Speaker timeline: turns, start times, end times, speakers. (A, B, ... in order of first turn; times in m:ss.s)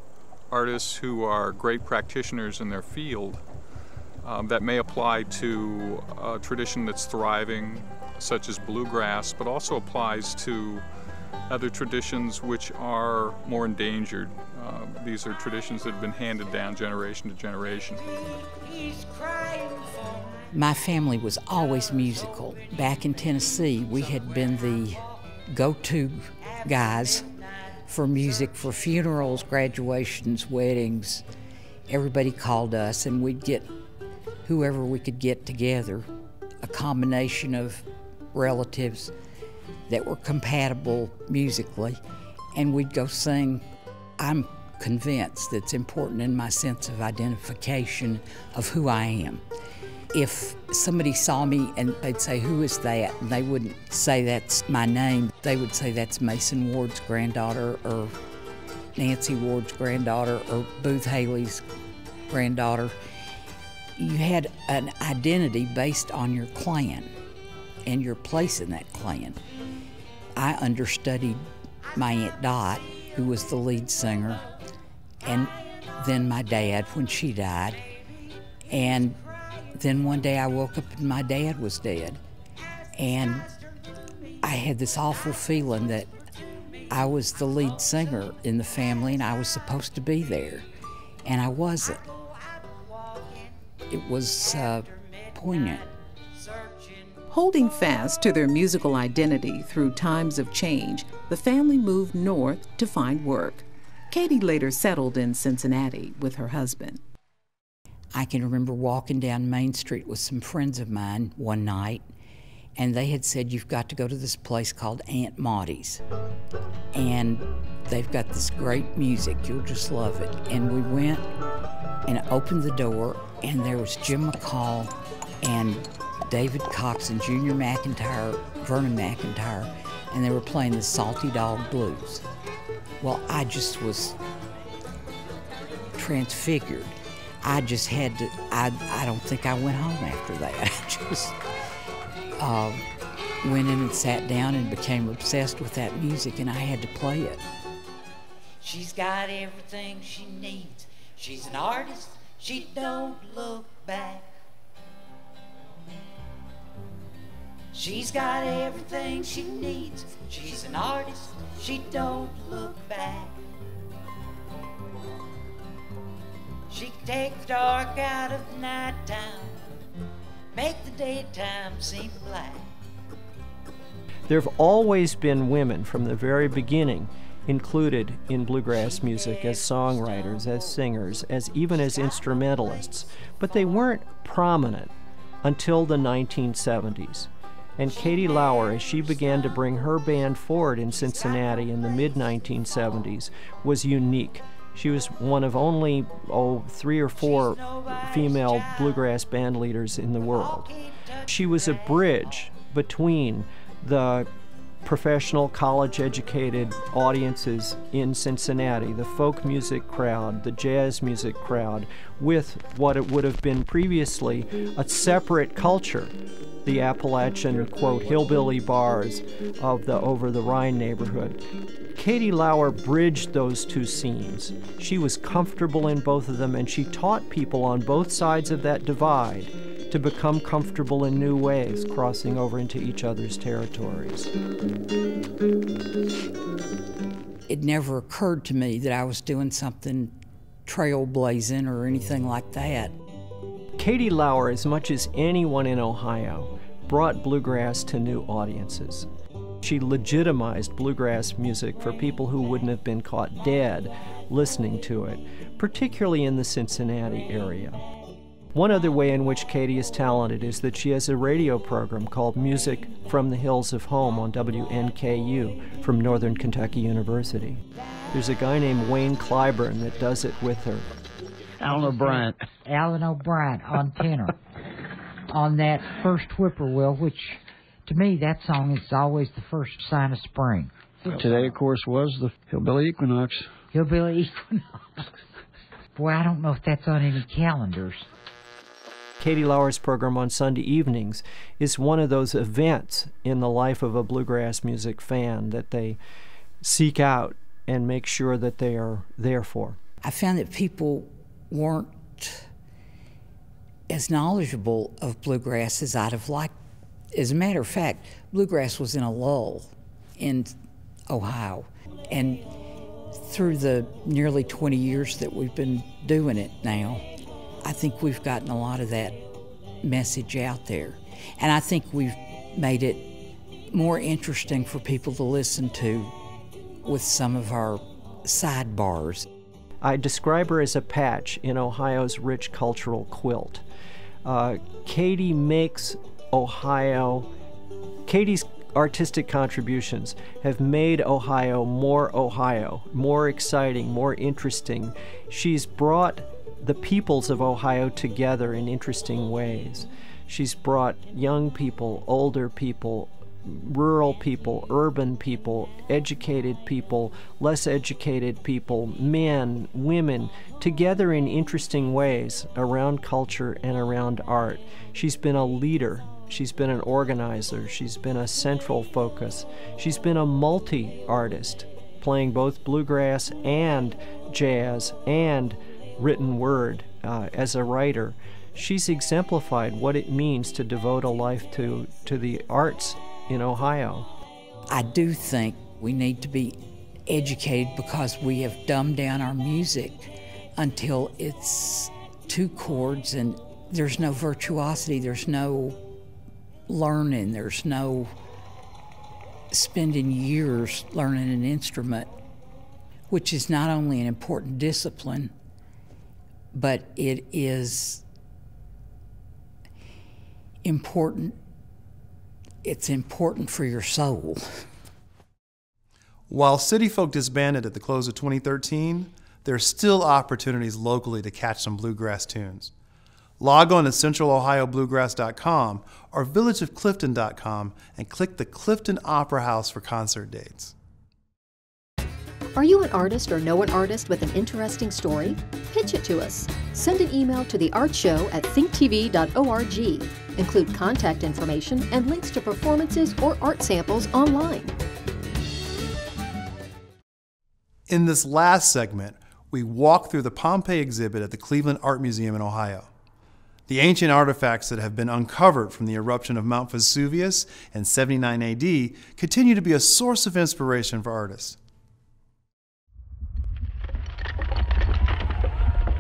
0:00.5-0:03.4 A
0:04.2-0:10.8 A
0:11.5-0:18.1 A
0:19.0-0:19.8 B
0:20.5-0:27.3 C
0:27.9-0:31.2 C
0:31.9-0:33.7 C
0:34.4-0:36.1 C
0:36.6-0:39.1 C
0:39.9-0:42.0 C
0:42.5-0:43.7 C
0:44.2-0:49.4 C
0:50.1-0:58.2 C
0:59.0-1:01.6 C
1:02.3-1:03.0 C
1:04.0-1:07.1 C
1:07.8-1:09.4 C
1:10.4-1:14.4 C
1:15.2-1:17.8 C
1:18.7-1:19.2 C
1:19.7-1:22.2 C
1:22.9-1:23.5 C
1:24.4-1:26.1 C
1:26.9-1:30.7 C
1:31.2-1:32.1 C
1:33.9-1:35.9 C
1:37.3-1:47.0 D
1:48.1-1:52.0 C
1:52.8-1:56.0 C
1:56.9-2:01.2 C
2:02.1-2:12.2 C
2:13.0-2:14.2 C
2:16.0-2:21.4 C
2:22.4-2:22.8 C
2:23.4-2:27.4 C
2:28.6-2:34.3 B
2:37.7-2:43.4 B
2:46.7-2:49.6 B
2:50.5-2:52.7 B
2:54.3-3:20.7 E
2:59.0-3:00.3 B
3:21.3-3:24.3 E
3:24.8-3:36.1 E
3:36.6-3:41.4 E
3:42.0-3:54.3 E
3:57.5-4:00.2 C
4:00.7-4:02.9 C
4:03.8-4:09.1 E
4:09.6-4:17.8 E
4:18.5-4:30.9 E
4:31.6-4:32.4 F
4:31.7-4:34.4 G
4:35.3-4:41.5 G
4:41.1-4:43.5 F
4:43.7-4:45.0 G
4:45.9-4:48.1 G
4:49.2-4:56.0 E
4:56.6-4:59.8 E
5:00.0-5:02.5 C
5:03.9-5:06.5 C
5:07.1-5:10.6 C
5:11.1-5:12.4 C
5:13.2-5:17.1 C
5:17.6-5:19.2 C
5:19.8-5:23.1 C
5:23.7-5:26.2 C
5:26.8-5:29.2 C
5:29.8-5:33.6 E
5:34.2-5:37.3 E
5:38.1-6:24.1 E
6:24.7-6:35.8 C
6:36.7-6:38.1 C
6:39.5-6:42.1 C
6:43.1-6:45.3 C
6:46.5-6:48.0 C
6:50.6-6:51.4 C
6:52.6-6:54.6 C
6:56.3-7:02.7 H
7:03.4-7:10.7 H
7:12.5-7:24.8 I
7:27.9-7:32.9 H
7:33.7-7:41.6 H